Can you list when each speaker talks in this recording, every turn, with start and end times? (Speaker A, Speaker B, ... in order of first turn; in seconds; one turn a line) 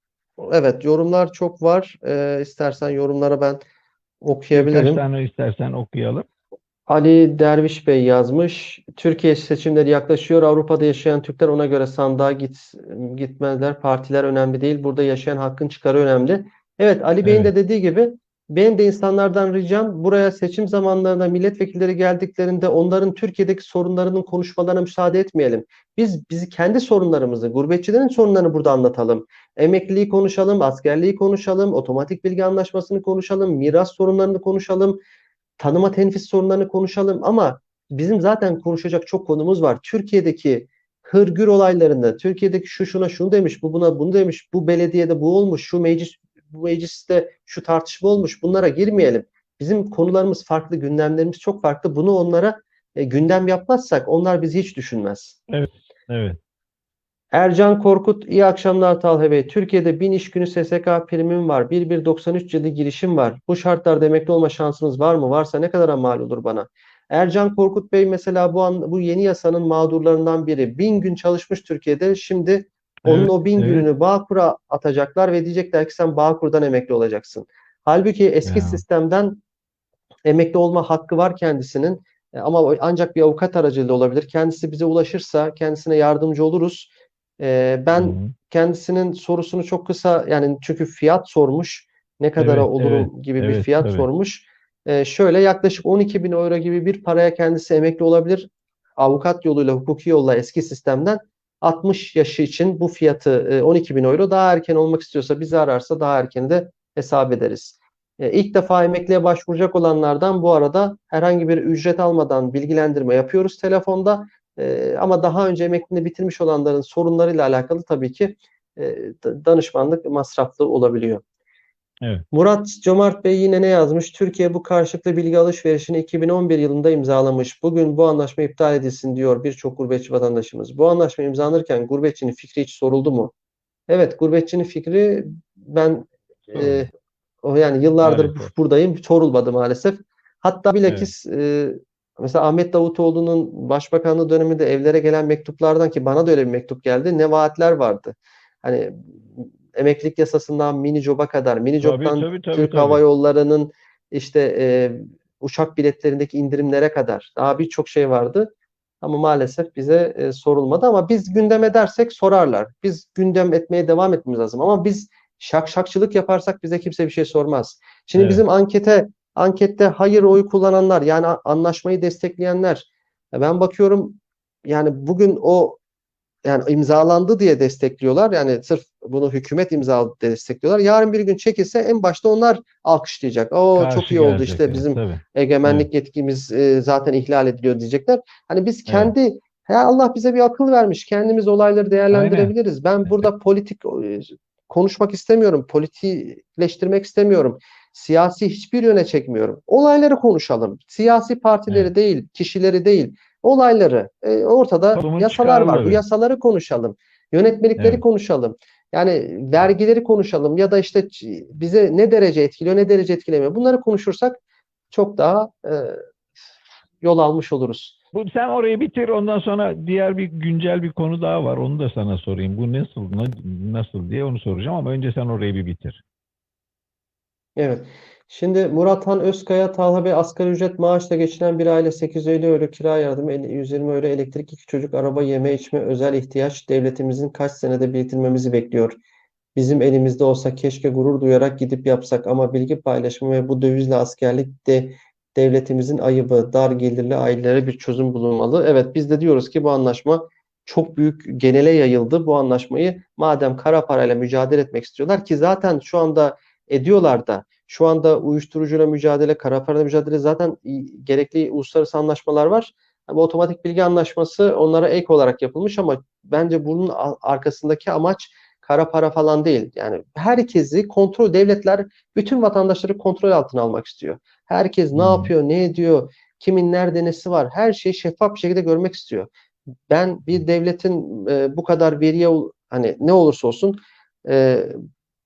Speaker A: 0.4-3.6
Speaker A: 4.2-5.0
Speaker B: 4.5-6.3
Speaker A: 6.9-35.0
Speaker B: 17.2-17.5
Speaker A: 35.6-55.4
Speaker B: 55.5-56.4
Speaker A: 57.3-79.4
Speaker B: 73.0-73.9
Speaker B: 78.5-78.8
Speaker A: 80.2-121.2
Speaker B: 88.0-88.3
Speaker B: 92.4-94.1
Speaker A: 122.3-133.3
Speaker A: 133.9-136.9
Speaker B: 136.5-136.9
Speaker A: 137.4-175.8
Speaker B: 138.0-138.5
Speaker B: 140.9-141.1
Speaker B: 151.8-153.0
Speaker B: 168.2-168.4
Speaker A: 176.4-214.4
Speaker B: 183.8-185.9
Speaker B: 188.9-189.1
Speaker B: 192.1-192.5
Speaker B: 204.9-206.0
Speaker B: 207.8-208.0
Speaker A: 214.9-216.0
Speaker A: 217.0-218.0
Speaker B: 218.1-226.0
Speaker A: 227.6-239.0
Speaker A: 239.6-279.3
Speaker B: 274.9-275.3
Speaker A: 279.9-284.8